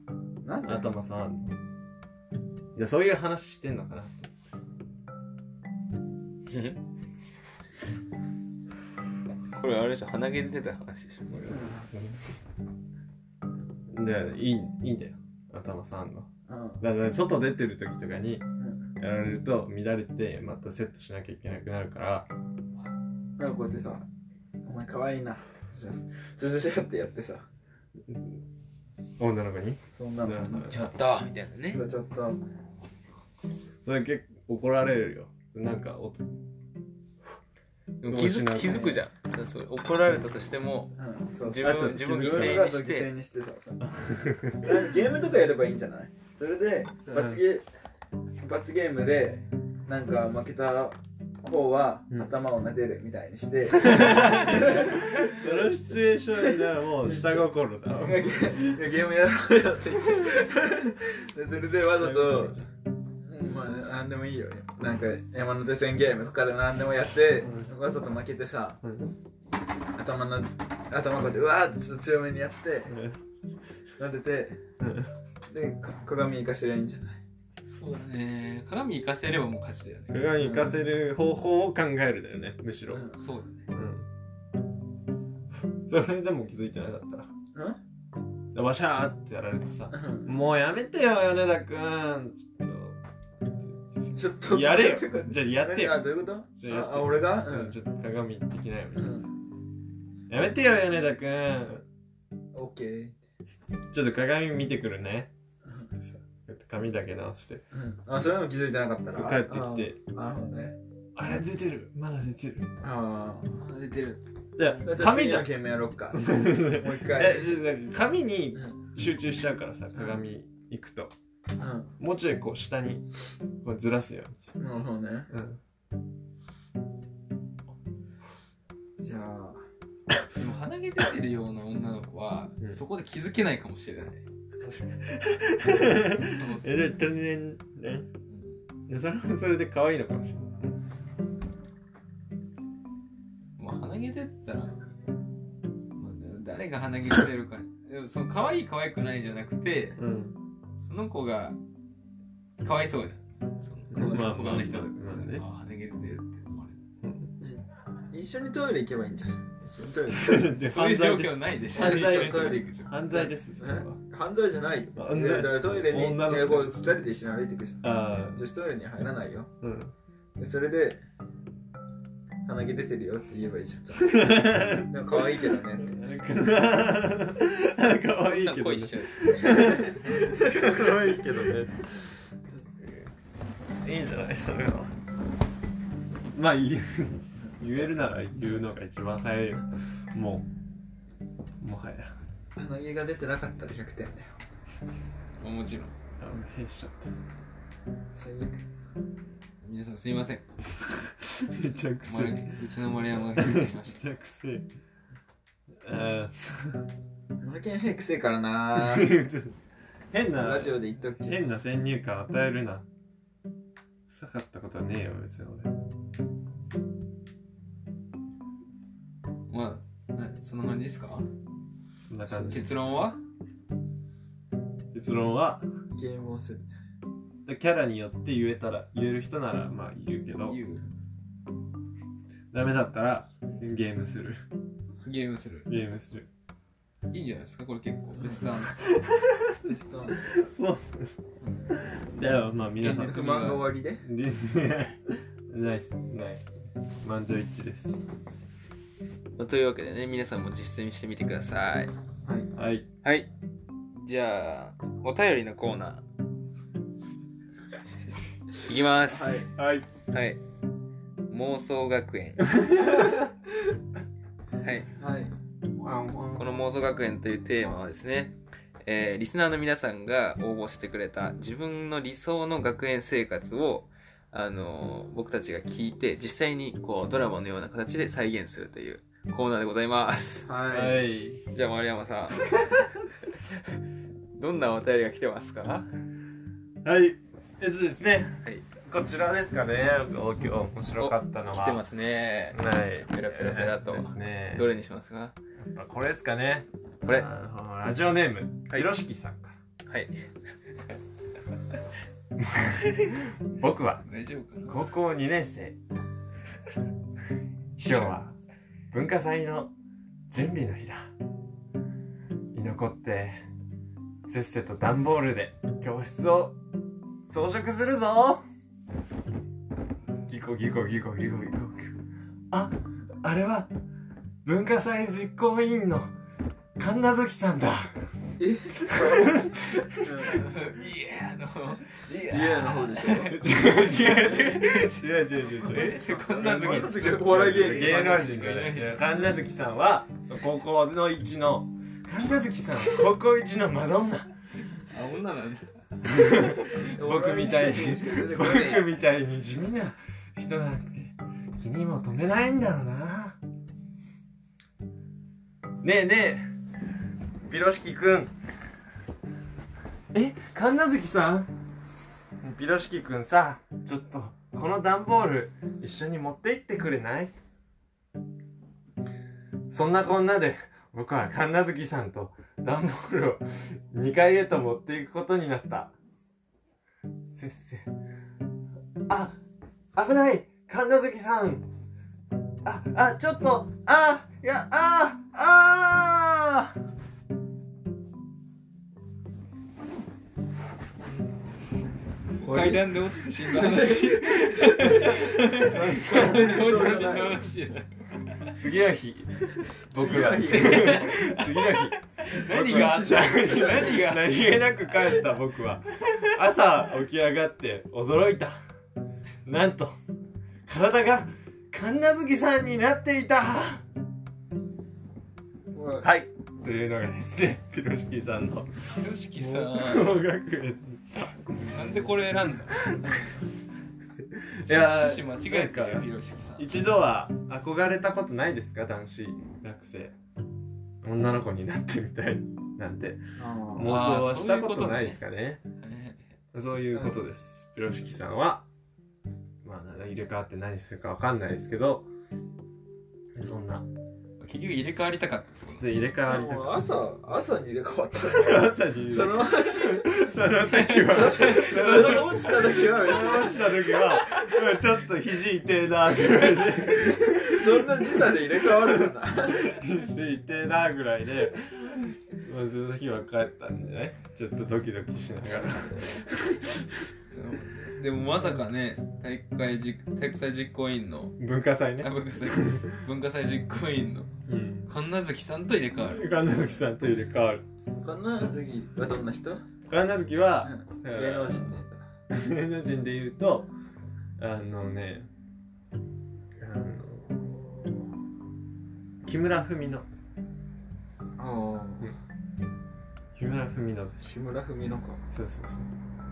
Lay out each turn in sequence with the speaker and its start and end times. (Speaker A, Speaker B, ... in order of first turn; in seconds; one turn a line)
Speaker A: 0.4-0.9
Speaker B: 0.7-1.5
Speaker B: 2.7-4.3
Speaker C: 6.5-6.8
Speaker C: 9.5-11.3
Speaker B: 11.3-12.4
Speaker A: 11.5-11.8
Speaker B: 13.9-16.3
Speaker A: 16.5-16.8
Speaker B: 16.8-18.4
Speaker B: 19.0-22.3
Speaker A: 23.4-24.1
Speaker A: 24.6-27.5
Speaker B: 28.1-28.4
Speaker B: 29.2-30.9
Speaker A: 29.9-30.7
Speaker C: 30.7-31.8
Speaker A: 31.7-32.4
Speaker B: 33.8-36.3
Speaker C: 38.0-43.1
Speaker B: 38.1-39.0
Speaker A: 41.0-47.6
Speaker B: 41.6-42.7
Speaker B: 43.9-44.7
Speaker B: 47.1-47.4
Speaker A: 48.4-55.7
Speaker B: 53.7-58.7
Speaker A: 56.4-62.6
Speaker B: 61.8-62.6
Speaker A: 63.2-68.8
Speaker B: 67.4-67.7
Speaker B: 68.8-69.1
Speaker A: 70.0-73.0
Speaker B: 72.9-73.2
Speaker A: 74.0-74.6
Speaker B: 74.8-75.1
Speaker A: 75.5-77.2
Speaker C: 77.7-80.3
Speaker B: 80.1-83.1
Speaker A: 80.4-80.7
Speaker A: 82.9-83.2
Speaker C: 83.1-83.7
Speaker B: 83.7-84.1
Speaker B: 85.8-87.3
Speaker A: 87.5-87.8
Speaker B: 88.5-93.0
Speaker A: 89.9-90.3
Speaker B: 93.6-99.2
Speaker A: 94.1-97.8
Speaker A: 99.0-99.3
Speaker B: 100.3-101.8
Speaker A: 102.5-103.1
Speaker B: 103.9-107.6
Speaker A: 105.6-105.9
Speaker A: 107.7-110.8
Speaker B: 109.1-110.0
Speaker B: 111.1-112.7
Speaker A: 112.8-113.6
Speaker C: 113.5-114.2
Speaker B: 114.6-115.6
Speaker A: 114.8-117.6
Speaker B: 116.1-121.1
Speaker A: 118.5-118.8
Speaker A: 121.6-121.9
Speaker B: 122.0-123.0
Speaker B: 123.6-124.6
Speaker A: 124.6-125.3
Speaker B: 125.3-125.6
Speaker A: 129.0-129.6
Speaker C: 130.3-134.2
Speaker B: 135.1-138.1
Speaker C: 136.2-136.8
Speaker C: 138.3-138.6
Speaker B: 138.9-140.8
Speaker C: 143.6-144.8
Speaker C: 145.9-150.0
Speaker B: 150.0-150.4
Speaker C: 150.8-151.6
Speaker C: 152.6-156.8
Speaker B: 153.9-155.4
Speaker A: 153.9-154.3
Speaker B: 157.0-157.3
Speaker A: 157.4-160.5
Speaker B: 160.1-164.0
Speaker C: 160.6-162.9
Speaker A: 161.7-169.5
Speaker B: 164.9-166.8
Speaker B: 167.8-168.4
Speaker B: 169.6-169.9
Speaker A: 170.4-171.0
Speaker A: 172.4-176.3
Speaker B: 173.9-175.0
Speaker B: 175.8-181.9
Speaker C: 178.2-179.9
Speaker A: 179.6-180.9
Speaker B: 183.8-184.9
Speaker B: 186.3-190.5
Speaker B: 191.6-192.1
Speaker A: 192.6-194.3
Speaker C: 195.4-195.9
Speaker B: 196.2-197.1
Speaker A: 198.1-198.6
Speaker C: 199.6-200.5
Speaker B: 201.2-202.5
Speaker C: 202.0-204.0
Speaker B: 203.1-204.7
Speaker B: 205.8-206.8
Speaker A: 207.4-209.2
Speaker B: 208.7-209.5
Speaker B: 210.1-212.8
Speaker A: 210.4-211.6
Speaker B: 214.1-215.7
Speaker C: 219.5-221.2
Speaker B: 222.0-222.9
Speaker A: 222.2-222.7
Speaker C: 222.5-223.2
Speaker B: 224.9-225.6
Speaker A: 225.9-226.7
Speaker B: 227.4-230.6
Speaker C: 230.4-230.8
Speaker B: 232.5-234.4
Speaker C: 235.0-235.7
Speaker B: 235.7-236.3
Speaker C: 237.1-238.9
Speaker B: 238.7-239.7
Speaker A: 239.6-240.5
Speaker B: 240.3-241.1
Speaker B: 241.7-243.5
Speaker C: 242.8-243.7
Speaker A: 242.8-244.0
Speaker B: 244.0-248.0
Speaker C: 249.3-251.9
Speaker B: 252.5-252.9
Speaker C: 253.0-253.3
Speaker C: 253.9-256.0
Speaker C: 258.6-259.5
Speaker A: 259.1-259.5
Speaker B: 259.5-259.9
Speaker C: 260.1-260.4
Speaker C: 261.3-262.6
Speaker B: 262.6-263.3
Speaker C: 264.6-264.9
Speaker A: 265.0-265.3
Speaker B: 265.8-266.5
Speaker C: 266.4-280.5
Speaker A: 280.4-281.0
Speaker B: 280.7-281.4
Speaker C: 281.5-283.8
Speaker C: 284.3-285.9
Speaker B: 286.8-291.8
Speaker C: 291.0-295.4
Speaker B: 292.5-294.7
Speaker B: 295.6-299.6
Speaker C: 299.9-300.2
Speaker B: 302.4-304.0
Speaker C: 302.7-303.2
Speaker C: 304.0-304.9
Speaker B: 304.6-305.8
Speaker C: 307.8-308.2
Speaker B: 307.8-308.3
Speaker B: 308.9-309.7
Speaker B: 310.3-311.1
Speaker B: 312.5-313.4
Speaker B: 314.2-316.6
Speaker B: 317.2-318.4
Speaker B: 320.3-322.0
Speaker B: 322.5-323.7
Speaker B: 324.4-326.1
Speaker B: 326.8-327.9
Speaker A: 328.4-330.5
Speaker B: 328.9-330.1
Speaker C: 330.3-335.0
Speaker A: 332.1-333.4
Speaker B: 333.2-344.3
Speaker C: 335.6-339.2
Speaker A: 335.7-338.4
Speaker C: 344.8-345.8
Speaker B: 346.0-353.4
Speaker C: 346.4-346.7
Speaker A: 346.7-348.9
Speaker B: 355.8-356.5
Speaker B: 357.4-358.3
Speaker B: 360.1-361.5
Speaker B: 362.4-367.3
Speaker B: 369.7-375.9
Speaker B: 377.3-377.9
Speaker B: 379.1-379.3
Speaker B: 379.9-381.7
Speaker B: 382.6-386.8
Speaker C: 392.4-398.6
Speaker A: 392.4-397.4
Speaker B: 395.6-397.2
Speaker B: 398.5-408.6
Speaker A: 399.9-401.1
Speaker C: 400.3-404.8
Speaker A: 402.3-404.0
Speaker B: 409.4-409.9
Speaker B: 410.7-413.8
Speaker A: 415.7-416.1
Speaker B: 416.0-418.7
Speaker C: 418.9-420.2
Speaker B: 419.4-422.0
Speaker C: 421.7-422.9
Speaker B: 422.7-423.3
Speaker B: 424.2-430.1
Speaker C: 424.7-426.7
Speaker B: 431.0-435.6
Speaker A: 433.4-434.0
Speaker C: 433.8-435.2
Speaker C: 435.8-436.2
Speaker B: 436.5-438.6
Speaker A: 436.9-437.2
Speaker B: 439.6-442.1
Speaker B: 443.3-443.9
Speaker C: 444.4-446.0
Speaker B: 445.8-446.8
Speaker A: 446.2-450.1
Speaker B: 448.2-467.1
Speaker C: 450.6-453.5
Speaker A: 451.0-454.4
Speaker C: 454.0-454.5
Speaker A: 457.0-459.8
Speaker A: 465.5-466.3
Speaker C: 467.3-471.4
Speaker B: 471.4-472.9
Speaker C: 472.0-474.3
Speaker B: 474.5-474.9
Speaker C: 474.9-476.2
Speaker B: 476.0-477.6
Speaker A: 477.9-479.6
Speaker B: 479.9-481.7
Speaker A: 480.6-482.0
Speaker B: 482.3-483.7
Speaker B: 484.4-485.3
Speaker B: 486.6-488.0
Speaker B: 489.2-490.1
Speaker A: 491.4-492.1
Speaker B: 493.3-494.2
Speaker A: 494.2-495.2
Speaker B: 495.3-495.9